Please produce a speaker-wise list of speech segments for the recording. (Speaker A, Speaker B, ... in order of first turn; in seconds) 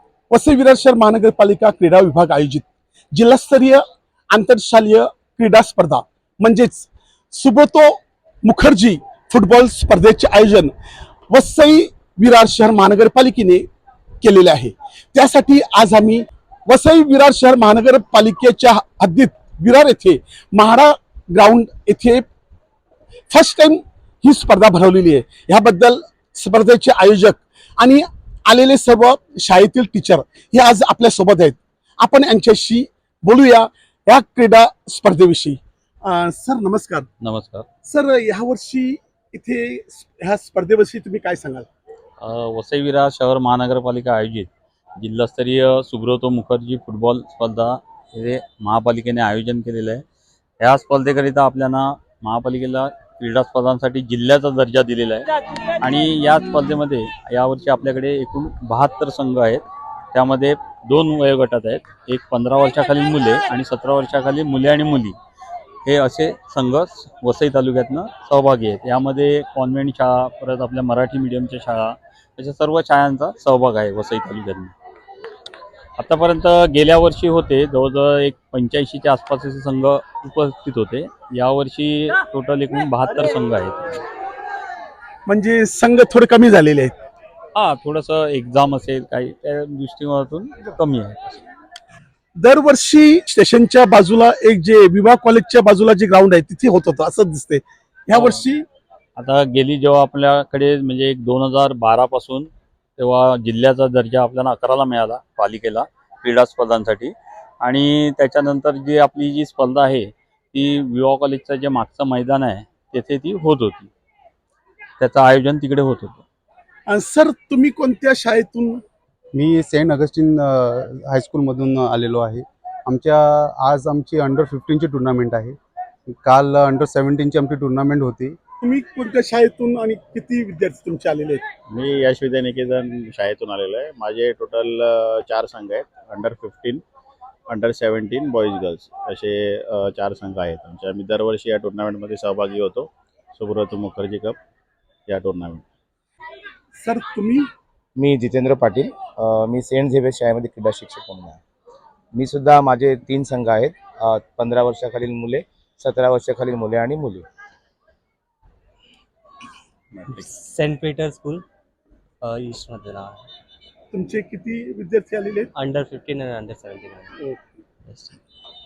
Speaker A: 0.3-10.7, 11.3-13.6, 14.2-22.2, 23.3-37.1, 37.9-41.7, 85.3-86.9, 92.4-98.6, 116.9-118.8, 128.6-131.4, 146.8-147.5, 163.9-165.5
Speaker B: 37.2-37.7, 42.2-50.0, 50.6-55.3, 55.8-65.2, 65.8-74.7, 76.0-84.0, 87.5-91.4, 98.1-98.4, 99.2-113.9, 115.0-116.2
Speaker C: 119.3-125.6, 126.1-128.4
Speaker D: 131.7-136.8, 137.5-144.4, 145.1-145.6
Speaker E: 148.0-151.4, 152.2-157.3
Speaker F: 160.1-161.4, 162.2-163.2, 165.6-167.2, 167.9-168.2